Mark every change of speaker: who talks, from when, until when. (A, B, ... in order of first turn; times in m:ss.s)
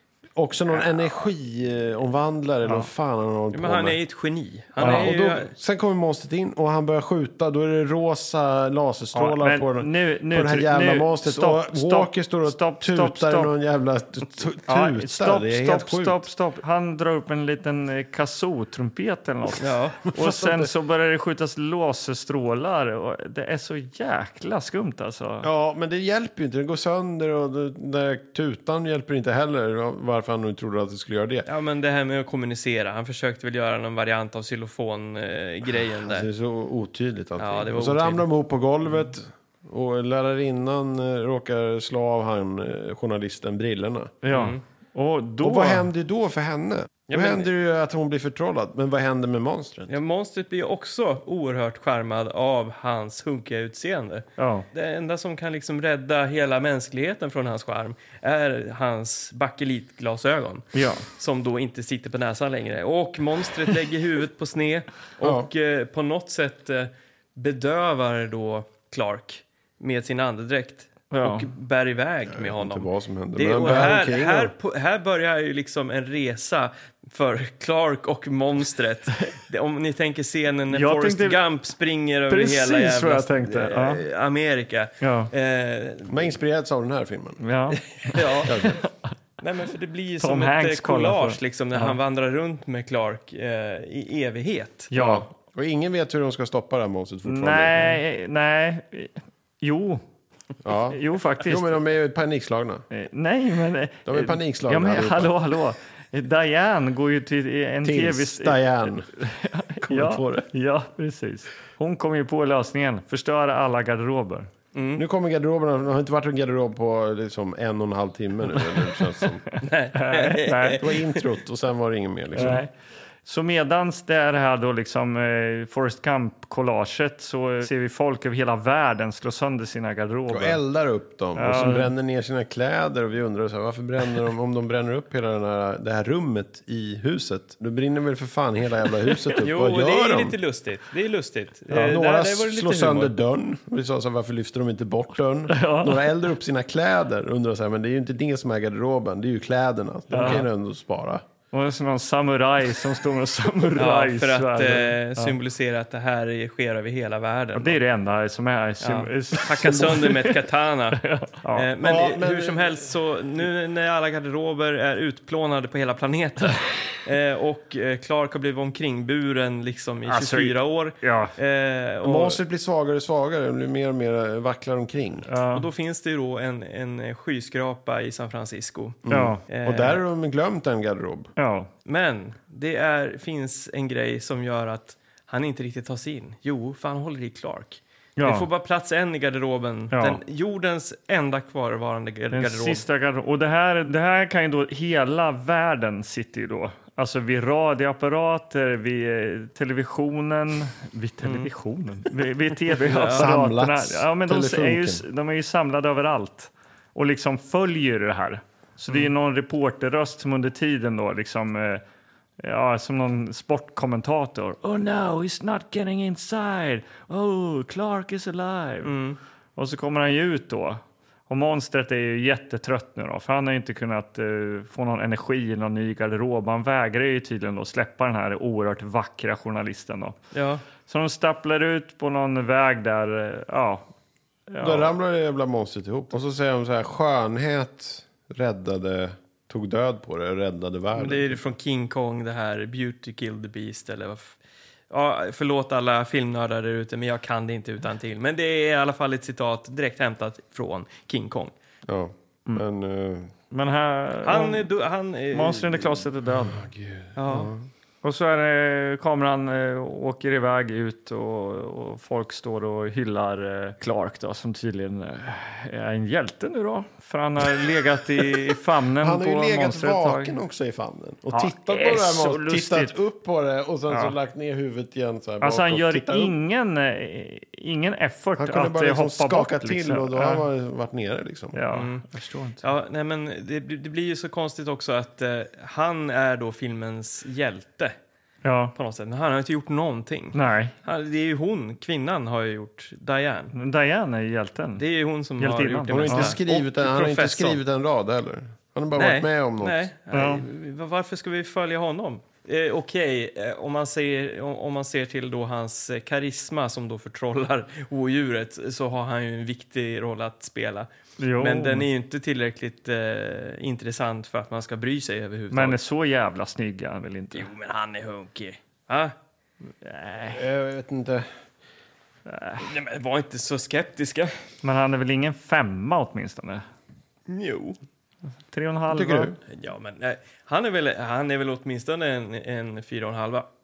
0:00.4-0:04.0 A
0:03.5-0:05.5 B
0:04.8-0:16.2 A
0:04.8-0:05.1 C
0:09.1-0:13.5 C
0:14.7-0:25.5 C
0:19.6-0:20.1 B
0:20.1-0:20.7 A
0:25.4-0:31.5 A
0:31.5-0:36.3 B
0:36.0-0:44.2 A
0:37.4-0:38.3 B
0:44.2-0:45.9 C
0:44.3-0:44.6 B
0:45.4-0:50.0 A
0:47.1-0:47.5 B
0:49.9-1:26.3 B
0:54.4-0:54.7 C
1:00.7-1:01.1 C
1:05.2-1:05.5 A
1:11.1-1:11.5 C
1:12.3-1:14.5 A
1:20.7-1:21.4 C
1:22.3-1:24.0 C
1:25.0-1:25.3 C
1:26.1-1:27.4 A
1:27.4-1:28.6 C
1:28.0-1:28.6 B
1:28.4-1:28.8 A
1:29.4-1:34.9 B
1:30.2-1:32.0 C
1:34.9-1:35.3 C
1:34.9-1:38.0 A
1:37.2-1:40.0 C
1:40.6-1:42.8 A
1:40.9-1:41.8 C
1:42.9-1:54.5 C
1:44.1-1:45.3 A
1:47.8-1:49.1 A
1:49.8-1:50.5 A
1:54.7-1:55.0 B
1:55.0-1:59.4 A
1:59.6-2:01.2 B
2:00.0-2:00.8 C
2:00.8-2:02.6 A
2:02.4-2:02.7 C
2:03.2-2:10.6 C
2:10.3-2:20.4 A
2:11.4-2:11.9 C
2:19.4-2:23.1 B
2:21.7-2:31.2 A
2:25.5-2:26.1 C
2:30.1-2:30.5 C
2:31.5-2:35.4 C
2:33.8-2:37.8 B
2:37.6-2:40.4 C
2:38.8-2:41.0 B
2:41.0-2:41.7 C
2:41.5-2:52.4 B
2:41.8-2:42.8 A
2:50.1-2:51.4 C
2:52.0-2:55.3 A
2:55.3-2:55.7 C
2:55.5-3:00.0 B
2:59.1-3:01.3 A
2:59.1-2:59.4 C
3:01.4-3:01.7 C
3:01.9-3:12.8 B
3:08.2-3:08.5 C
3:09.9-3:10.2 C
3:12.3-3:31.8 C
3:21.2-3:21.5 B
3:22.7-3:23.3 B
3:23.1-3:25.0 A
3:32.4-3:38.9 C
3:38.8-3:39.2 B
3:39.6-3:50.2 C
3:50.3-3:50.6 B
3:50.9-3:53.9 C
3:54.5-3:54.9 C
3:54.6-4:01.5 A
4:01.0-4:04.4 B
4:04.9-4:11.5 B
4:11.9-4:13.3 A
4:13.5-4:14.7 C
4:14.2-4:16.0 B
4:15.3-4:16.6 C
4:16.4-4:17.7 A
4:17.2-4:17.5 B
4:18.0-4:30.4 C
4:29.0-4:36.4 A
4:31.3-4:33.0 C
4:33.9-4:34.2 C
4:35.4-4:40.4 C
4:38.4-4:41.6 A
4:41.5-4:42.6 C
4:41.7-4:42.0 B
4:42.6-4:48.0 B
4:48.4-4:48.7 C
4:48.8-4:53.5 B
4:50.3-4:50.7 C
4:53.5-4:54.8 C
4:54.8-4:57.6 B
4:55.4-4:56.4 C
4:55.9-4:59.9 A
4:59.0-5:15.8 B
5:00.1-5:00.5 C
5:11.2-5:11.9 C
5:15.5-5:17.5 C
5:17.3-5:19.1 B
5:19.8-5:20.4 C
5:20.3-5:21.3 A
5:22.3-5:22.6 C
5:22.6-5:24.3 B
5:24.6-5:26.6 C
5:27.3-5:27.8 B
5:28.5-5:29.3 C
5:28.9-5:29.4 A
5:29.5-5:33.5 B